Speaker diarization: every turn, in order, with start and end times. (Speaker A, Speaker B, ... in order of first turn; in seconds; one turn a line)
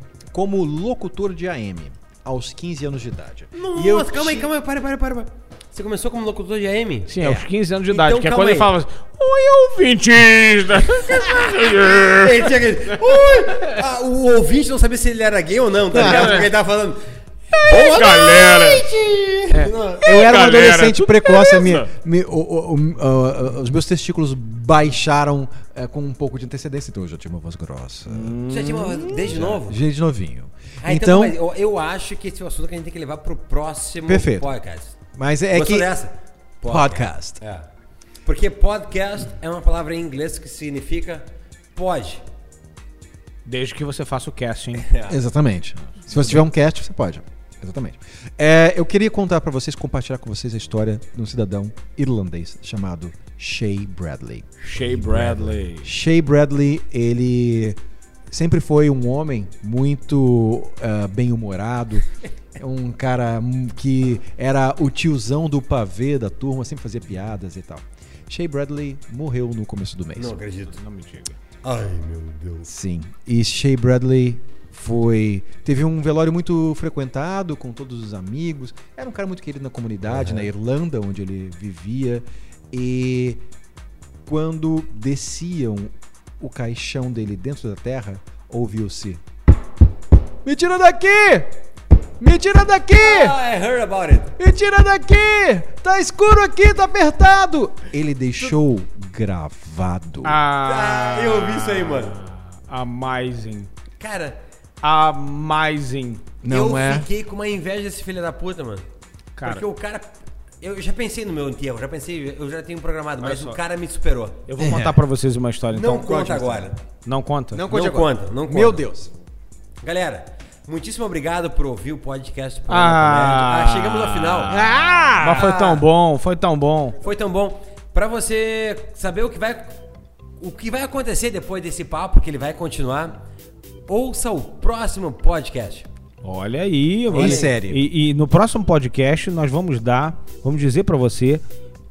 Speaker A: 0.3-4.5
Speaker B: 3.5-7.1
Speaker C: 7.1-13.8
Speaker A: 7.2-7.5
Speaker B: 7.9-8.8
Speaker B: 11.1-20.1
Speaker C: 15.9-16.5
Speaker C: 17.5-18.8
Speaker C: 19.5-21.9
Speaker A: 20.0-28.4
Speaker C: 28.1-29.4
Speaker B: 28.4-29.8
Speaker A: 29.1-31.4
Speaker B: 30.8-35.0
Speaker A: 34.0-34.5
Speaker A: 35.1-36.0
Speaker B: 35.5-37.7
Speaker A: 36.7-37.4
Speaker B: 38.2-42.2
Speaker C: 43.5-44.9
Speaker B: 44.8-45.1
Speaker A: 45.0-55.3
Speaker C: 54.6-55.9
Speaker B: 54.8-55.6
Speaker A: 55.8-57.8
Speaker A: 58.3-70.4
Speaker B: 70.1-70.8
Speaker C: 70.8-71.4
Speaker B: 71.6-72.7
Speaker A: 72.7-83.4
Speaker B: 80.0-80.5
Speaker A: 84.2-89.2
Speaker A: 90.4-91.5
Speaker A: 92.2-93.4
Speaker B: 92.9-94.4
Speaker A: 94.4-100.4
Speaker C: 100.2-103.7
Speaker B: 100.6-102.2
Speaker B: 104.0-104.4
Speaker C: 104.8-106.2
Speaker A: 106.4-107.1
Speaker B: 106.5-108.8
Speaker C: 109.3-109.6
Speaker B: 109.4-114.4
Speaker C: 113.2-113.6
Speaker C: 114.5-116.4
Speaker A: 114.6-115.0
Speaker B: 115.7-116.8
Speaker A: 116.0-116.7
Speaker C: 117.0-117.7
Speaker A: 117.5-119.1
Speaker B: 117.7-118.8
Speaker B: 119.8-125.8
Speaker C: 122.7-127.0
Speaker B: 127.0-129.8
Speaker B: 130.4-133.2
Speaker B: 133.9-135.9
Speaker C: 136.2-141.4
Speaker B: 137.1-137.5
Speaker A: 137.1-137.8